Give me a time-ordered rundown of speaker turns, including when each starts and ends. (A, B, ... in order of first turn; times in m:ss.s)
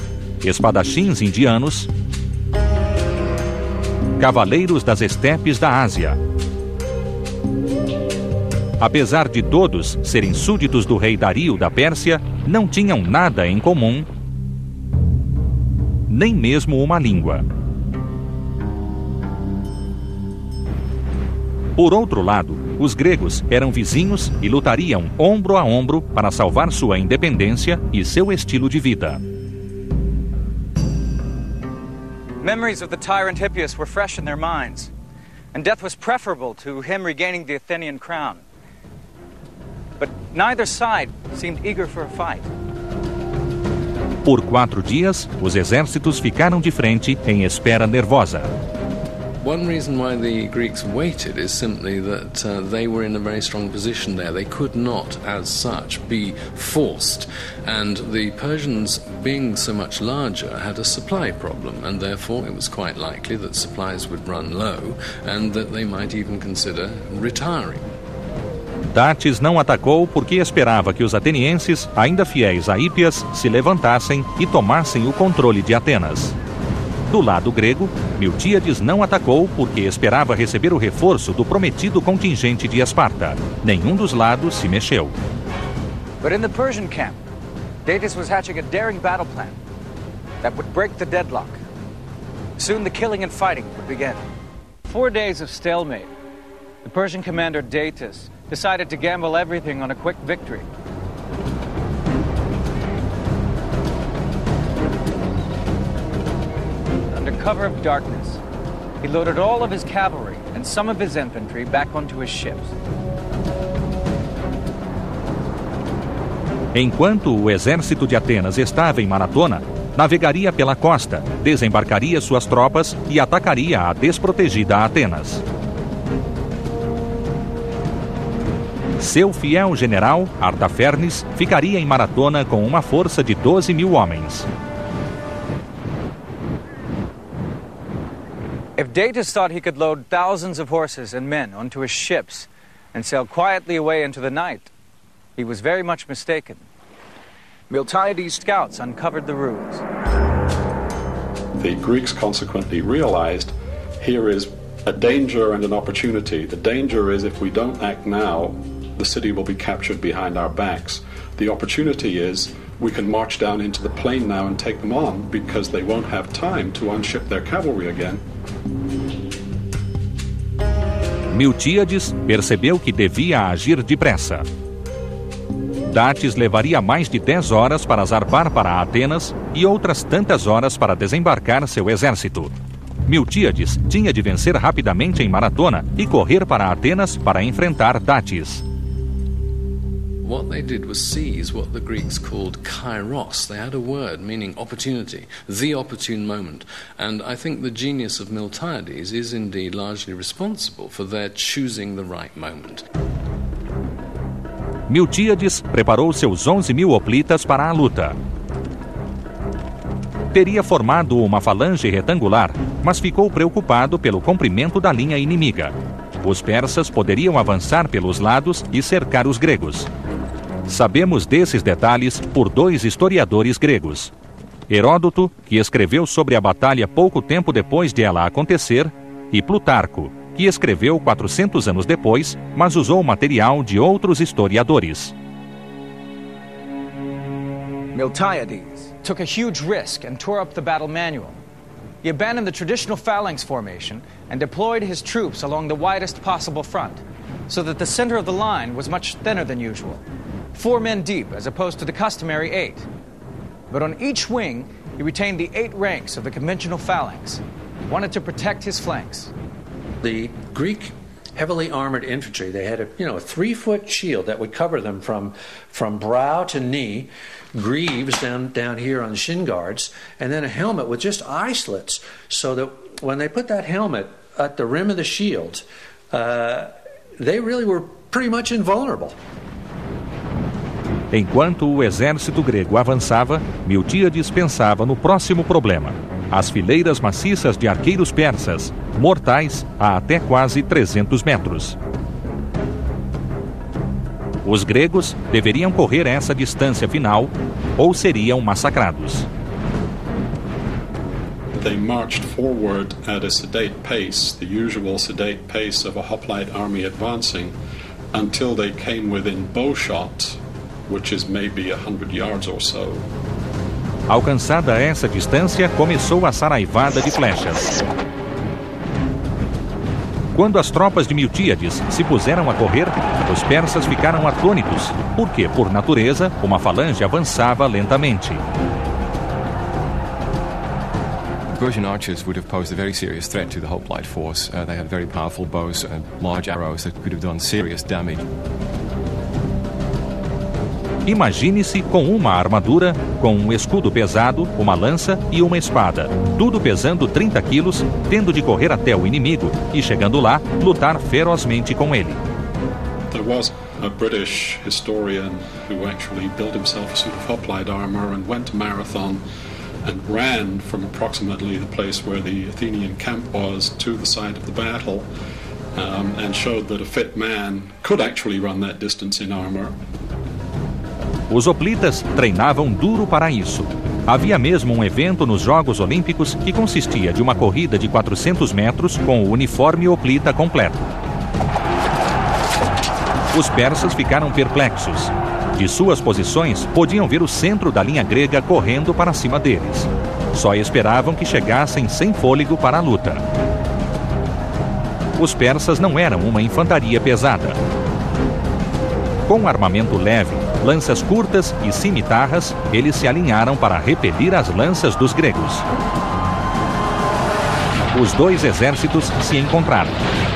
0:00.4-0:01.9 A
0:04.2-0:06.2 A
0:08.8-0:14.1 A
0:16.1-0:17.5 A
0:21.8-0:29.2 A
0:32.4-0:34.9 B
0:35.5-0:38.4 B
0:40.0-0:42.5 B
0:44.2-0:48.5 A
0:49.4-1:07.8 C
1:08.9-1:16.4 A
1:17.1-1:25.2 A
1:26.2-1:27.2 B
1:27.8-1:29.6 B
1:30.4-1:31.6 B
1:32.6-1:34.2 B
1:34.8-1:36.1 B
1:36.8-1:40.7 B
1:47.1-1:48.4 B
1:49.0-1:52.7 B
1:56.7-2:05.4 A
2:09.0-2:14.5 A
2:18.8-2:24.7 B
2:25.4-2:26.6 B
2:27.7-2:29.8 B
2:31.6-2:48.2 D
2:51.3-2:54.5 A
2:55.9-3:02.5 A
3:03.1-3:08.6 A
3:10.2-3:22.8 C
3:24.9-3:28.2 A
3:30.3-3:39.9 A
3:40.7-3:44.1 A
3:44.7-3:55.1 A
3:57.9-4:01.4 B
4:02.0-4:10.0 B
4:10.5-4:12.9 B
4:13.7-4:19.3 B
4:20.0-4:39.2 E
4:41.1-4:51.8 A
4:54.4-4:59.3 A
5:01.5-5:07.6 D
5:08.1-5:13.1 D
5:14.1-5:17.7 A
5:20.3-5:28.4 A
5:31.5-5:38.3 F
5:41.1-5:52.2 A
5:53.1-5:59.2 D
5:59.8-6:05.1 D
6:05.8-6:09.8 D
6:11.3-6:20.9 A
6:23.3-6:33.2 A
6:35.2-6:37.6 A
6:39.3-6:45.7 A
6:47.9-6:50.0 A